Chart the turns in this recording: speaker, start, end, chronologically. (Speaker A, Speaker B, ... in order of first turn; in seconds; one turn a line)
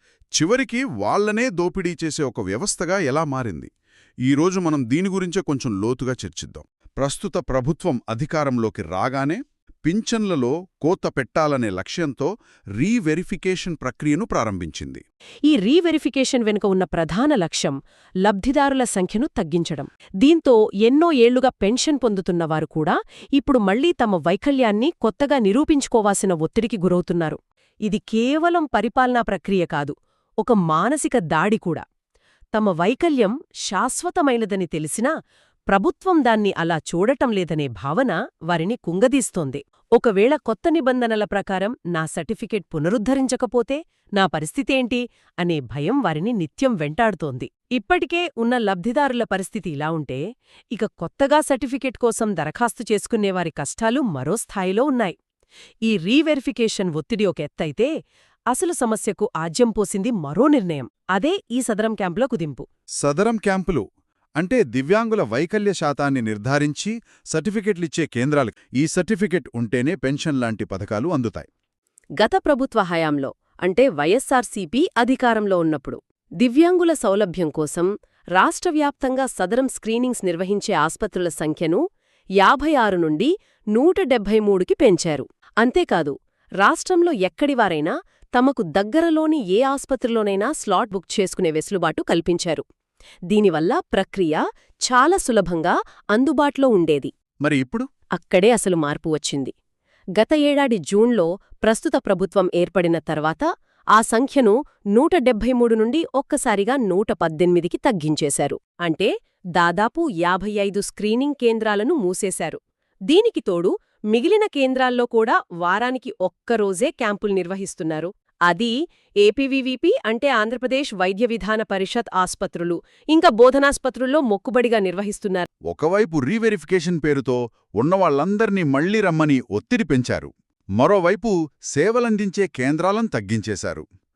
Speaker A: 0.4-3.7
Speaker A: 4.3-15.0
Speaker B: 15.5-31.8
Speaker B: 32.5-35.1
Speaker B: 35.7-50.2
Speaker B: 50.7-55.1
Speaker B: 55.9-57.9
Speaker B: 58.5-62.6
Speaker A: 63.0-63.8
Speaker A: 64.4-71.5
Speaker B: 72.2-81.8
Speaker B: 82.4-92.6
Speaker B: 93.3-97.1
Speaker A: 97.4-97.9
Speaker B: 98.2-99.5
Speaker B: 100.2-125.5
Speaker A: 125.7-133.8